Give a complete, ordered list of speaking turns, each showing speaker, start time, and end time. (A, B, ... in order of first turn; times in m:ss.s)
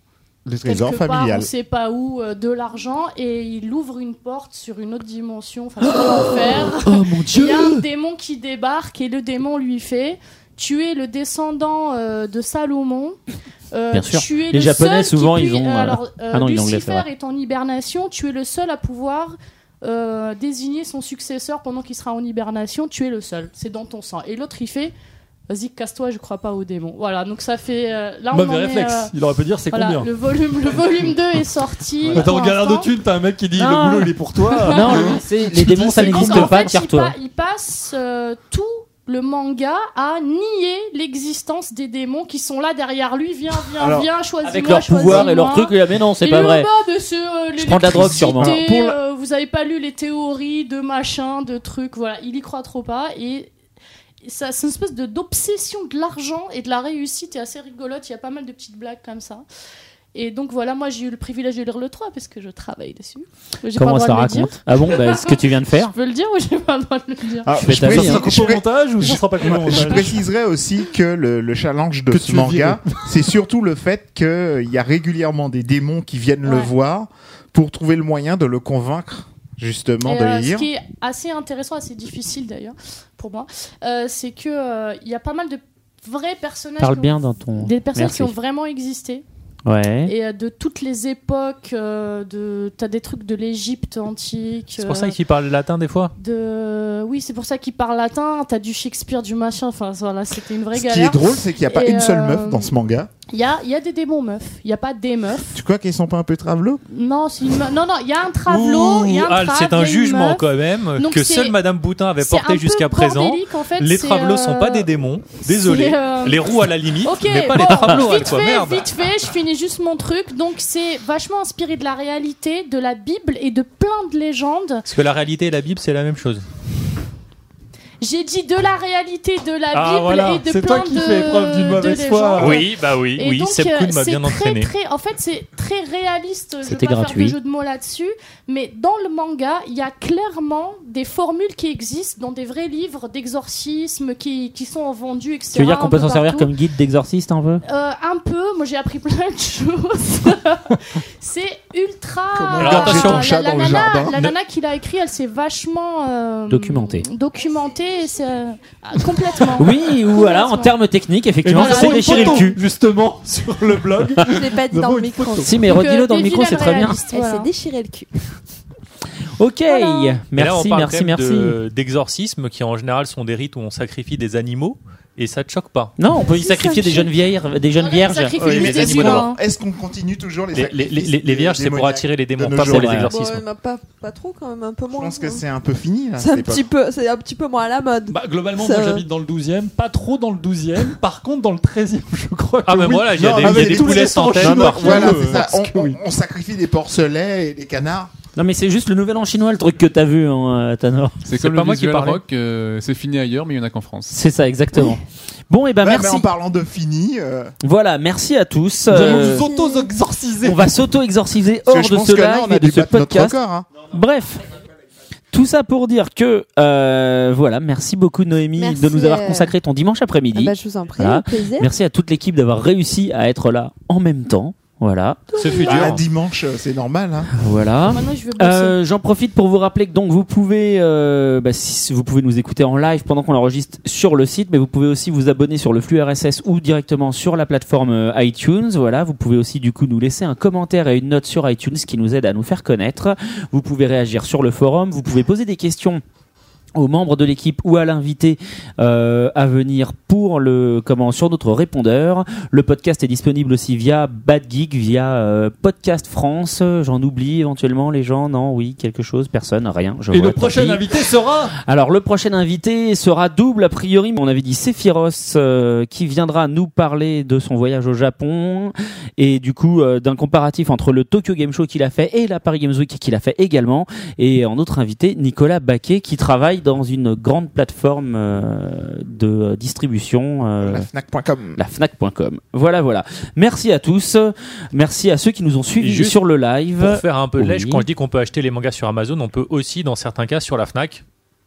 0:00.5-0:01.5 A
0:00.6-0:13.2 B
0:05.8-0:07.9 C
0:13.7-0:24.9 B
0:13.9-0:17.1 C
0:25.5-0:29.1 B
0:28.3-0:30.1 D
0:29.7-0:32.9 B
0:32.1-0:36.6 D
0:33.6-0:34.1 C
0:34.5-0:35.2 B
0:34.7-0:37.1 C
0:35.8-0:53.5 B
0:43.8-0:44.1 A
0:44.4-0:46.7 C
0:45.0-0:45.3 E
0:47.6-0:48.6 C
0:48.2-0:49.0 A
0:54.2-0:59.4 B
1:00.1-1:07.6 B
1:03.8-1:05.9 C
1:07.4-1:20.7 A
1:07.6-1:08.4 C
1:07.7-1:10.2 D
1:09.1-1:10.0 B
1:12.1-1:12.9 D
1:16.4-1:16.7 B
1:20.0-1:29.2 B
1:26.8-1:28.3 C
1:29.7-1:30.1 C
1:30.1-1:35.2 B
1:34.8-1:36.1 F
1:36.2-1:42.7 B
1:40.7-1:43.1 A
1:43.3-1:45.6 B
1:45.5-1:46.8 A
1:46.9-1:51.6 B
1:48.5-1:59.0 F
1:52.2-1:54.9 B
1:55.4-2:04.8 B
2:04.9-2:06.4 F
2:08.0-2:26.5 B
2:09.7-2:12.6 D
2:12.4-2:14.7 F
2:16.6-2:17.4 C
2:25.5-2:27.6 C
2:27.6-2:40.8 B
2:32.3-2:34.2 A
2:32.6-2:33.4 F
2:36.5-2:37.0 C
2:39.5-2:42.6 C
2:41.4-2:45.6 D
2:41.5-2:42.5 B
2:44.2-2:48.1 E
2:45.4-2:47.0 C
2:45.7-2:47.5 B
2:49.4-2:51.6 C
2:49.7-2:50.2 B
2:50.3-2:56.0 F
2:56.0-2:59.2 C
2:56.1-2:57.1 E
2:57.8-2:59.4 B
2:58.4-3:03.1 A
2:58.4-2:59.3 F
3:00.5-3:03.4 F
3:02.7-3:03.1 C
3:03.1-3:05.4 E
3:04.9-3:06.7 A
3:06.2-3:09.0 E
3:08.1-3:16.0 D
3:12.7-3:15.4 F
3:13.2-3:18.1 A
3:18.4-3:21.2 C
3:21.2-3:24.2 G
3:21.3-3:22.2 F
3:24.1-3:26.3 C
3:25.8-3:27.5 A
3:27.6-3:29.5 C
3:28.9-3:30.8 D
3:29.2-3:29.9 E
3:30.4-3:34.4 C
3:31.7-3:33.7 A
3:35.3-3:45.2 C
3:38.6-3:39.5 E
3:40.3-3:41.7 E
3:45.4-3:46.0 F
3:45.4-3:45.7 E
3:45.7-3:47.3 A
3:47.3-4:06.0 C
3:47.9-3:48.8 B
4:06.8-4:20.9 C
4:20.1-4:21.5 D
4:21.6-4:40.9 C
4:40.6-4:41.6 A
4:41.6-4:47.8 C
4:45.8-4:46.2 F
4:46.8-4:51.0 F